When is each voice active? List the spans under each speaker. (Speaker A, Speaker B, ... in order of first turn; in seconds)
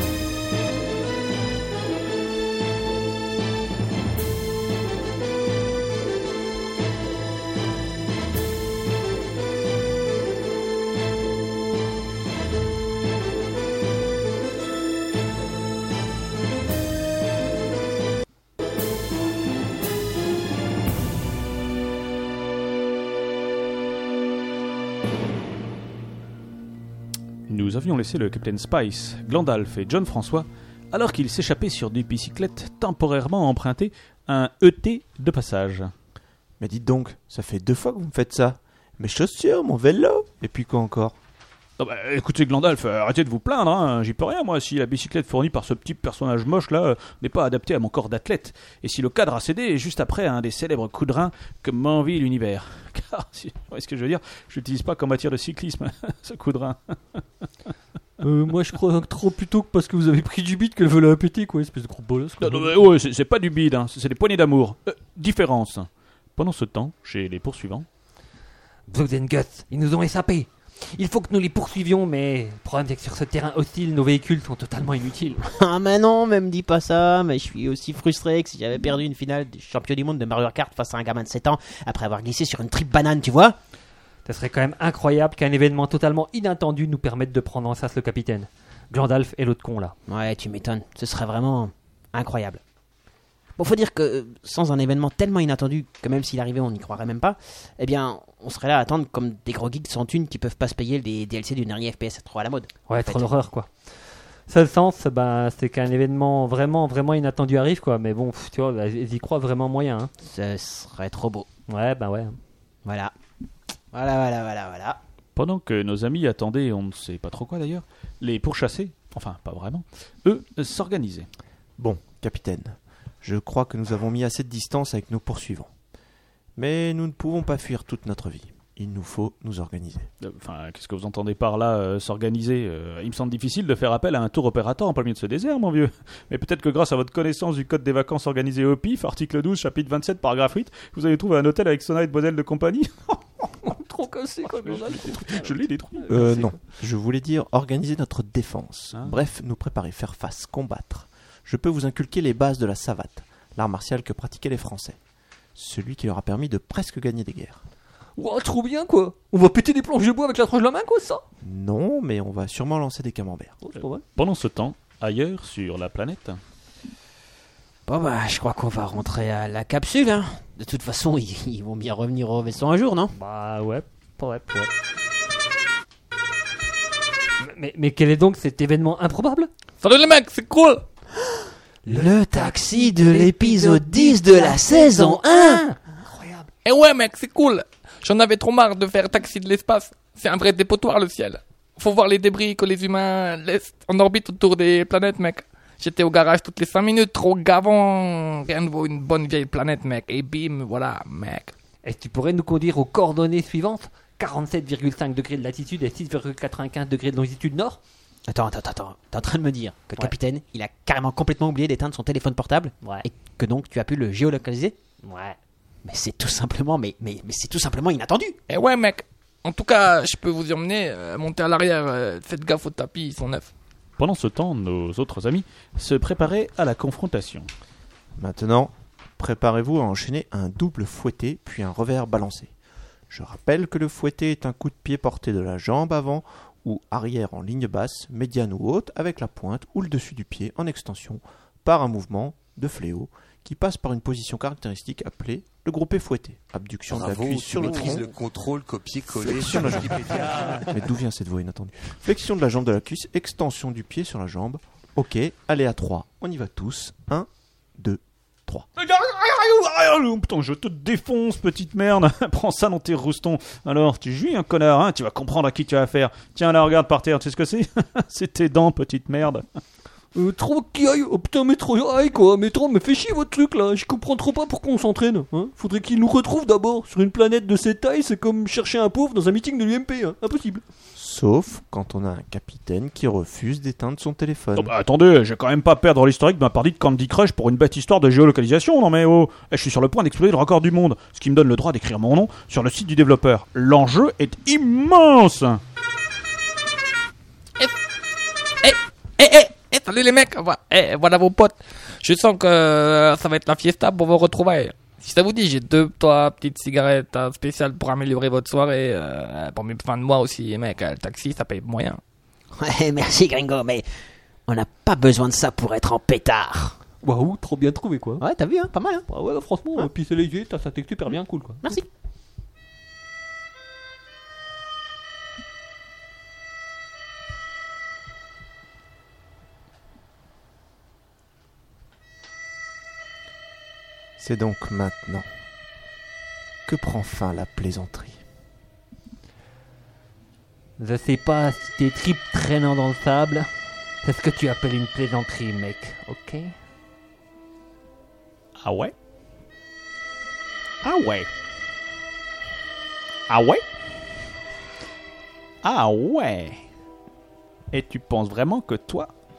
Speaker A: 27.5-35.9, 41.8-57.2, 62.4-67.8, 115.3-121.3, 130.2-143.7, 144.6-146.1, 164.1-166.4, 224.0-227.5, 258.8-269.6, 284.6-295.6, 348.6-348.9, 350.8-351.3, 353.3-353.6, 355.6-356.6, 357.7-359.1
Speaker B: 36.6-41.1, 121.8-125.7, 126.5-130.1, 146.1-155.0, 155.5-157.6, 161.4-163.6, 228.2-232.5, 233.1-248.2, 249.1-258.7, 280.9-284.7, 334.2-335.3, 336.6-338.2
Speaker C: 58.2-62.8, 68.9-75.4, 84.2-90.0, 102.9-110.1, 111.7-112.4, 143.6-146.6, 158.2-161.2, 163.6-164.0, 173.1-174.7, 177.4-179.5, 181.9-186.5, 201.8-207.8, 215.0-215.4, 270.1-280.6, 317.0-318.2, 319.1-321.7, 340.8-346.6
Speaker D: 75.5-83.6, 90.1-92.6, 93.6-103.3, 110.2-111.5, 112.8-113.1, 113.9-115.0, 167.8-173.1, 181.8-185.6, 208.3-214.8, 215.8-218.4, 312.6-313.9, 314.4-316.8, 318.2-319.1, 321.6-321.9
Speaker E: 179.8-180.8, 186.6-201.5, 218.5-223.5, 298.6-312.0
Speaker F: 246.9-250.6